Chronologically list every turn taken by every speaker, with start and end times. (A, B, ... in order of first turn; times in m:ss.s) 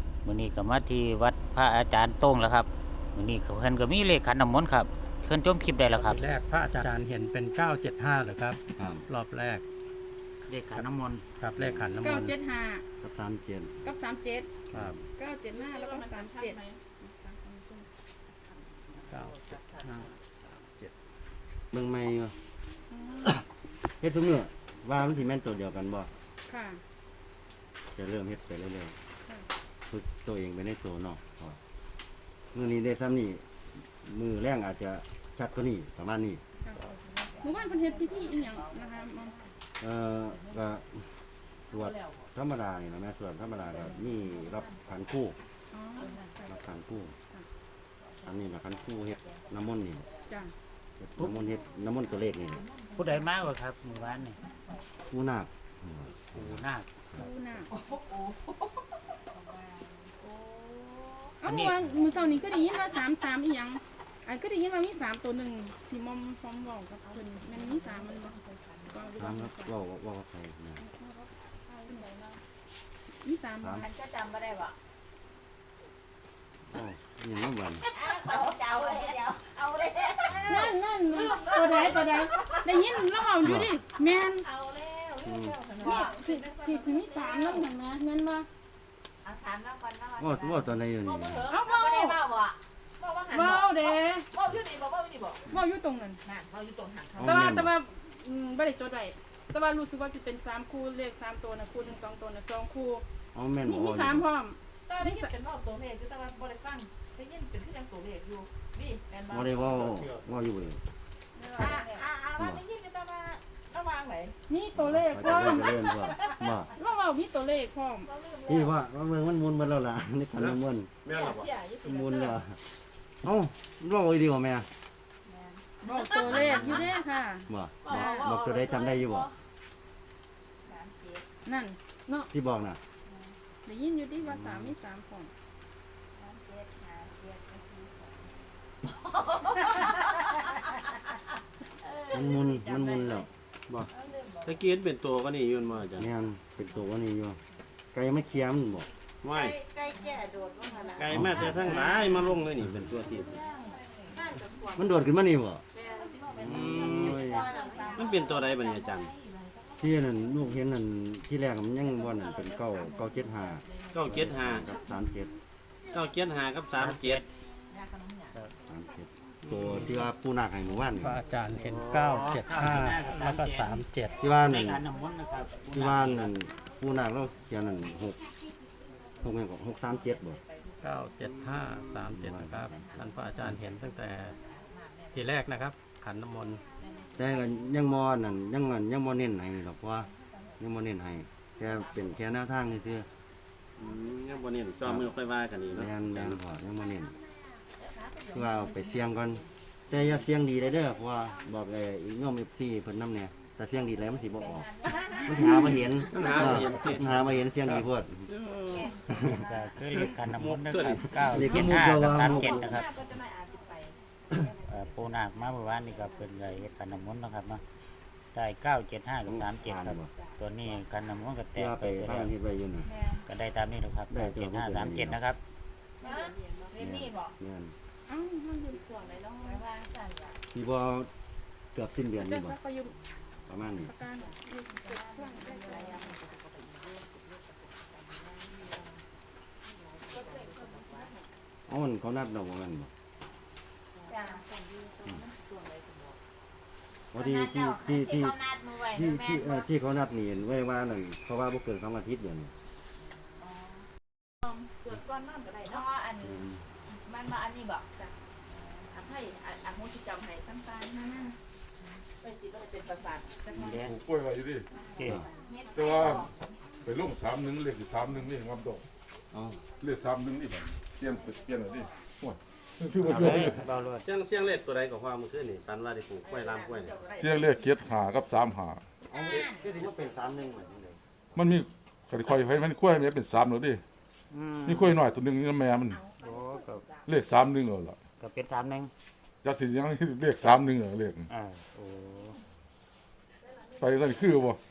0:00.2-0:06.2 A
0:05.9-0:09.6 B
0:08.8-0:09.0 C
0:10.5-0:11.2 A
0:11.4-0:12.3 B
0:11.6-0:12.3 C
0:12.0-0:12.8 D
0:13.0-0:13.8 C
0:13.8-0:14.5 D
0:14.7-0:15.0 C
0:15.2-0:17.9 D
0:15.5-0:16.7 E
0:19.1-0:20.0 B
0:21.7-0:22.4 C
0:22.9-0:23.4 D
0:24.0-0:26.1 C
0:26.5-0:26.8 D
0:28.0-0:29.0 C
0:29.9-0:31.6 C
0:32.5-0:36.4 C
0:36.8-0:39.5 E
0:37.4-0:39.4 D
0:39.8-0:41.2 C
0:41.7-0:45.4 C
0:41.7-0:42.2 E
0:43.9-0:44.7 E
0:45.7-0:46.2 D
0:46.0-0:46.4 E
0:46.4-0:47.2 C
0:48.0-0:48.4 E
0:48.2-0:50.1 C
0:49.0-0:49.6 E
0:51.0-0:52.6 C
0:52.3-0:53.1 E
0:53.0-0:54.4 A
0:55.1-0:57.3 C
0:56.3-0:56.9 A
0:57.2-0:57.7 D
0:57.8-0:58.3 E
0:59.3-1:01.3 E
1:01.4-1:08.4 D
1:01.4-1:01.8 A
1:02.0-1:03.0 E
1:07.0-1:09.4 E
1:08.9-1:09.7 D
1:09.2-1:10.8 C
1:10.8-1:12.2 D
1:11.9-1:12.3 E
1:13.2-1:13.9 D
1:13.6-1:13.9 C
1:13.8-1:14.7 E
1:16.7-1:17.9 C
1:17.9-1:23.1 E
1:20.4-1:24.5 D
1:23.4-1:23.8 C
1:24.0-1:27.7 E
1:25.2-1:25.6 C
1:25.8-1:28.5 D
1:29.2-1:35.4 E
1:30.2-1:31.5 C
1:31.5-1:32.2 D
1:33.3-1:34.3 D
1:35.5-1:36.2 D
1:36.3-1:37.4 E
1:37.2-1:43.0 D
1:37.2-1:37.7 C
1:43.3-1:44.3 C
1:43.6-1:45.3 D
1:44.9-1:50.1 E
1:49.3-1:50.8 C
1:51.4-1:54.4 E
1:52.4-1:52.6 C
1:54.5-1:55.7 D
1:54.8-1:56.7 C
1:55.4-1:56.6 E
1:56.8-1:58.1 D
1:58.1-1:58.7 E
1:58.5-2:00.9 C
2:00.4-2:01.5 F
2:01.1-2:02.2 E
2:01.8-2:02.6 C
2:03.2-2:04.7 C
2:05.3-2:06.9 E
2:05.8-2:08.4 D
2:06.3-2:07.0 C
2:07.5-2:09.3 C
2:07.9-2:09.2 E
2:10.7-2:11.2 E
2:11.4-2:12.3 D
2:12.3-2:12.8 C
2:13.1-2:13.3 E
2:13.6-2:15.3 D
2:14.2-2:14.8 C
2:16.2-2:18.3 E
2:19.1-2:20.5 E
2:21.8-2:23.2 E
2:22.1-2:23.3 C
2:23.9-2:24.6 E
2:24.4-2:26.1 F
2:26.0-2:27.4 C
2:27.9-2:28.9 C
2:29.2-2:29.6 F
2:29.3-2:32.3 E
2:31.0-2:33.4 F
2:31.1-2:31.9 C
2:33.0-2:35.0 E
2:34.8-2:35.6 C
2:35.8-2:39.6 E
2:36.3-2:37.5 C
2:36.4-2:37.3 F
2:37.9-2:39.1 F
2:39.8-2:45.3 C
2:42.0-2:44.8 E
2:43.9-2:44.7 F
2:45.9-2:47.2 F
2:46.8-2:47.2 A
2:47.7-2:48.3 E
2:48.7-2:51.2 C
2:49.4-2:49.9 F
2:51.0-2:54.2 B
2:51.6-2:56.3 A
2:54.2-2:54.8 C
2:55.7-2:58.2 C
2:59.2-3:00.4 C
3:00.0-3:00.9 E
3:00.8-3:04.4 B
3:01.2-3:01.9 F
3:02.1-3:03.5 C
3:02.3-3:05.2 E
3:05.1-3:06.6 B
3:06.8-3:07.4 E
3:07.2-3:13.1 C
3:10.2-3:10.6 E
3:11.6-3:12.1 E
3:13.8-3:16.4 F
3:14.8-3:15.1 C
3:15.7-3:17.2 C
3:17.8-3:19.4 E
3:18.3-3:24.7 C
3:24.4-3:27.0 E
3:25.2-3:28.3 C
3:26.1-3:29.0 F
3:28.7-3:29.5 E
3:29.1-3:29.4 C
3:29.3-3:32.9 A
3:29.9-3:31.7 F
3:31.3-3:32.8 C
3:32.2-3:36.6 E
3:34.7-3:37.6 A
3:38.3-3:42.3 A
3:39.3-3:40.1 C
3:41.6-3:42.9 C
3:42.9-3:43.2 E
3:43.3-3:45.4 A
3:44.1-3:45.2 C
3:46.0-3:47.3 E
3:46.8-3:47.8 C
3:48.1-3:48.8 D
3:49.4-3:50.4 E
3:50.5-3:51.1 C
3:51.7-3:52.6 C
3:52.2-3:53.0 D
3:53.5-3:53.9 C
3:53.7-3:56.0 D
3:54.2-3:59.0 E
3:59.7-4:01.2 E
4:01.7-4:02.9 C
4:04.0-4:06.2 E
4:07.1-4:12.5 C
4:07.2-4:09.6 E
4:13.4-4:13.8 E
4:14.8-4:16.4 E
4:16.2-4:16.7 C
4:17.0-4:18.1 E
4:18.9-4:21.4 E
4:22.2-4:23.8 E
4:23.5-4:23.9 A
4:23.8-4:24.7 G
4:24.8-4:26.3 E
4:25.0-4:25.3 A
4:25.0-4:25.3 C
4:25.7-4:28.9 G
4:29.3-4:29.6 C
4:29.8-4:33.6 G
4:33.0-4:34.1 A
4:34.0-4:37.0 F
4:36.3-4:37.6 E
4:37.2-4:38.8 G
4:39.1-4:39.7 E
4:39.1-4:41.4 C
4:41.4-4:43.8 G
4:44.3-4:44.9 A
4:44.7-4:46.0 G
4:45.9-4:47.0 E
4:46.2-4:46.8 A
4:47.1-4:48.0 G
4:48.2-4:48.9 A
4:49.4-4:51.3 G
4:51.3-4:52.4 A
4:53.8-4:54.6 G